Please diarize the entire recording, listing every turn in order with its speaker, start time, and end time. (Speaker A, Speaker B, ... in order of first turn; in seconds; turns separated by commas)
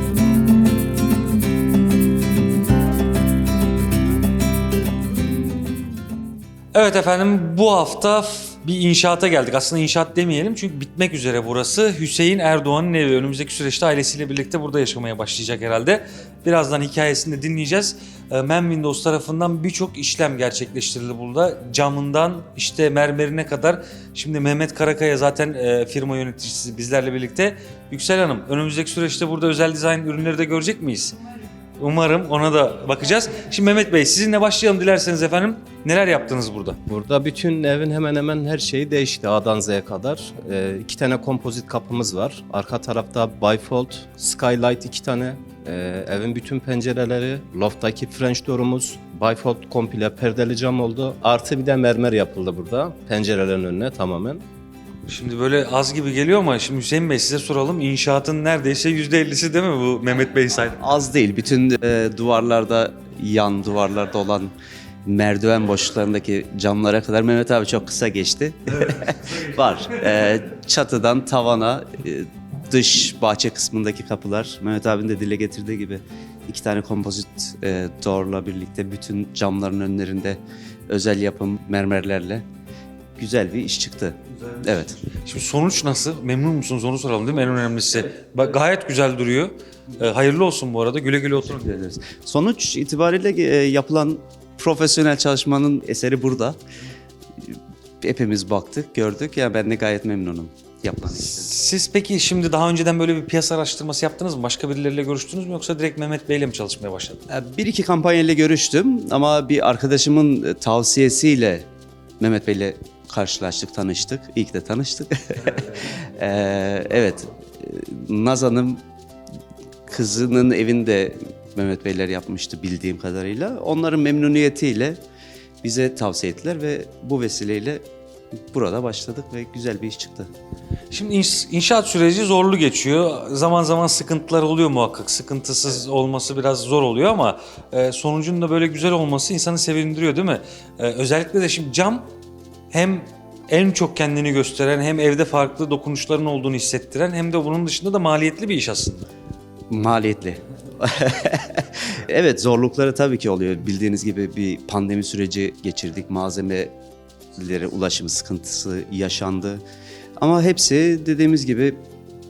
Speaker A: 6.7-31.2, Speaker A: 31.8-36.8, Speaker B: 36.9-54.4, Speaker A: 55.1-60.8, Speaker C: 60.8-64.5, Speaker C: 65.0-82.5, Speaker C: 83.2-85.0, Speaker A: 85.1-91.7, Speaker C: 91.5-96.6, Speaker C: 97.5-101.5, Speaker A: 101.0-107.2, Speaker C: 107.3-111.7, Speaker C: 112.2-115.6, Speaker C: 116.2-118.8, Speaker C: 119.9-125.0, Speaker C: 125.6-127.9, Speaker C: 128.5-130.3, Speaker A: 130.9-142.1, Speaker A: 142.7-149.1, Speaker C: 149.7-156.8, Speaker C: 157.4-159.6, Speaker C: 160.2-161.8